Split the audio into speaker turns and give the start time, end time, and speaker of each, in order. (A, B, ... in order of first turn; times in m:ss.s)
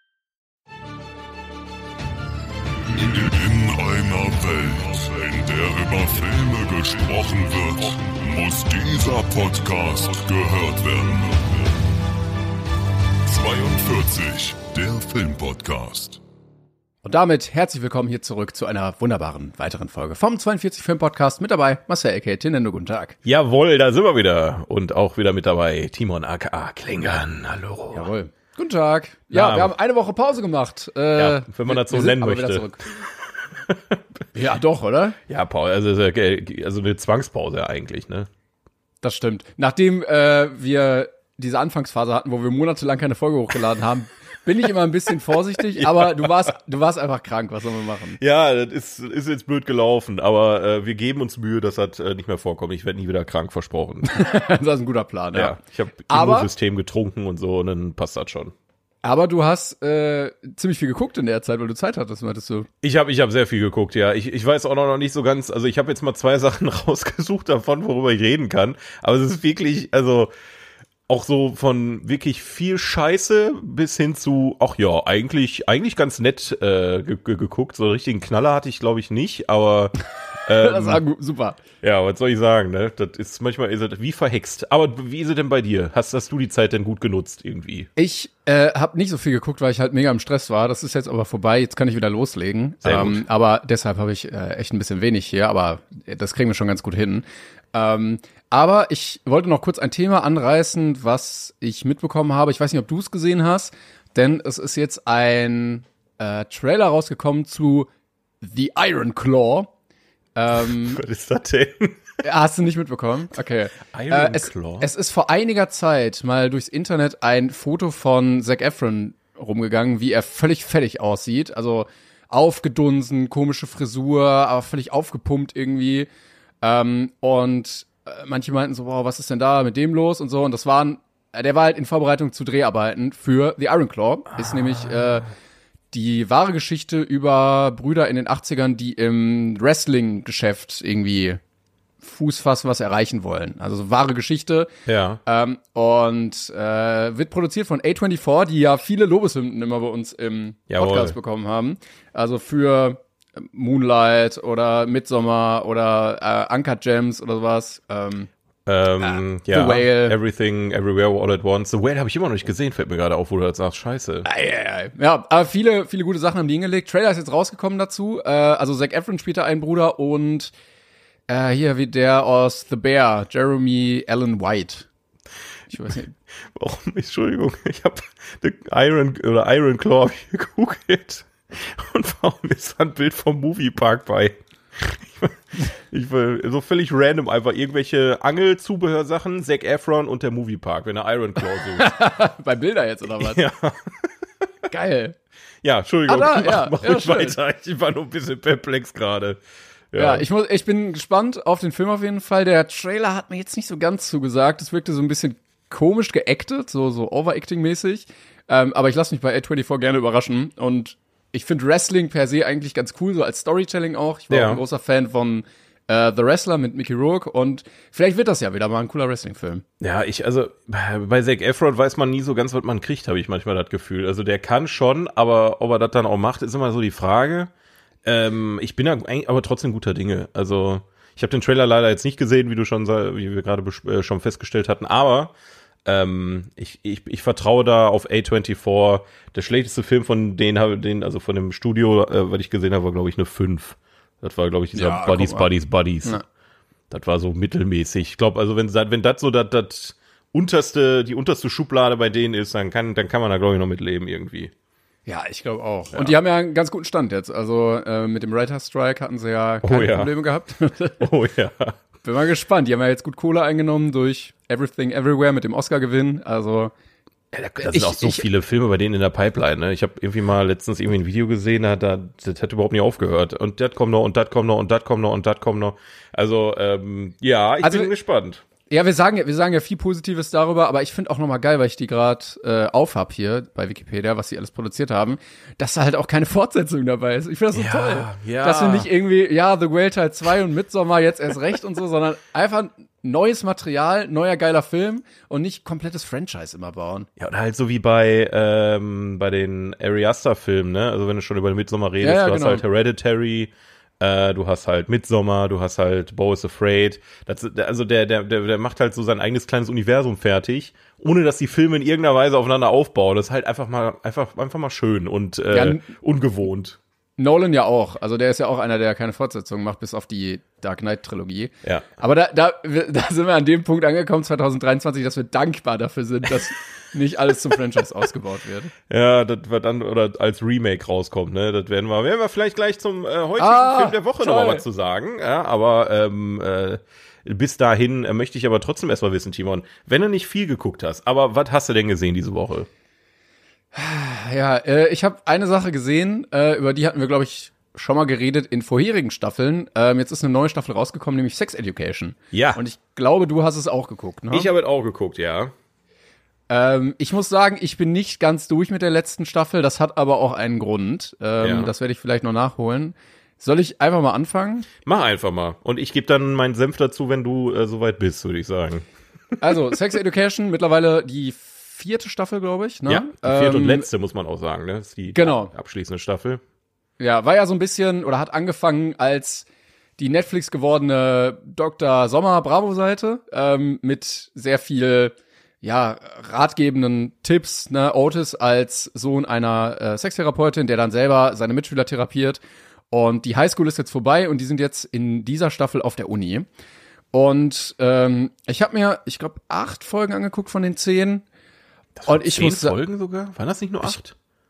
0:02.9-0:11.7 A
0:13.3-0:16.2 A
0:17.0-0:23.2 B
0:23.2-0:28.1 C
0:27.9-0:32.8 B
0:29.3-0:29.7 C
0:31.2-0:33.0 C
0:33.6-0:34.0 C
0:34.3-0:35.2 B
0:35.3-0:38.3 C
0:39.0-0:48.2 B
0:45.8-0:46.4 C
0:48.2-0:54.3 C
0:54.1-0:55.6 B
0:55.3-0:58.5 C
0:56.1-0:56.5 B
0:59.0-1:02.7 B
1:02.8-1:10.3 C
1:11.1-1:21.0 C
1:20.6-1:21.6 B
1:21.8-1:27.9 C
1:28.0-1:47.9 B
1:32.8-1:33.2 C
1:48.4-1:49.7 B
1:50.4-1:51.0 B
1:50.8-1:52.0 C
1:52.2-2:06.1 B
1:53.9-1:54.9 C
2:06.6-2:15.3 B
2:15.9-2:21.4 B
2:22.0-2:24.7 B
2:24.9-2:25.2 C
2:25.3-2:38.3 B
2:30.7-2:31.2 C
2:38.7-2:44.3 C
2:39.0-2:40.2 B
2:44.2-2:50.5 B
2:51.3-2:54.9 B
2:55.7-2:56.1 B
2:56.6-3:11.9 C
3:11.7-3:13.4 B
3:13.2-3:14.1 C
3:14.7-3:15.2 B
3:15.6-3:19.4 C
3:16.1-3:17.4 B
3:19.9-3:20.2 C
3:20.0-3:39.6 B
3:34.3-3:34.6 C
3:39.8-3:47.5 C
3:48.0-3:55.3 C
3:55.8-4:06.2 C
4:04.8-4:05.5 B
4:06.9-4:14.5 C
4:15.1-4:21.0 B
4:19.6-4:20.1 C
4:21.0-4:21.8 C
4:22.0-4:26.7 B
4:27.3-4:38.4 C
4:27.6-4:28.2 B
4:37.6-4:37.9 B
4:38.7-4:57.1 B
4:47.5-4:48.9 C
4:57.2-5:16.8 C
5:02.0-5:02.6 B
5:15.5-5:15.9 B
5:17.2-5:28.7 B
5:28.9-5:42.7 C
5:33.4-5:34.6 B
5:43.7-5:54.5 B
5:52.3-5:52.6 C
5:54.3-5:55.5 C
5:56.5-6:04.7 B
6:01.4-6:01.7 C
6:04.8-6:08.9 C
6:09.4-6:13.9 B
6:12.9-6:16.4 C
6:15.1-6:15.5 B
6:17.0-6:19.5 B
6:20.0-6:36.5 B
6:37.1-6:41.2 B
6:42.0-6:44.2 C
6:42.1-6:42.8 B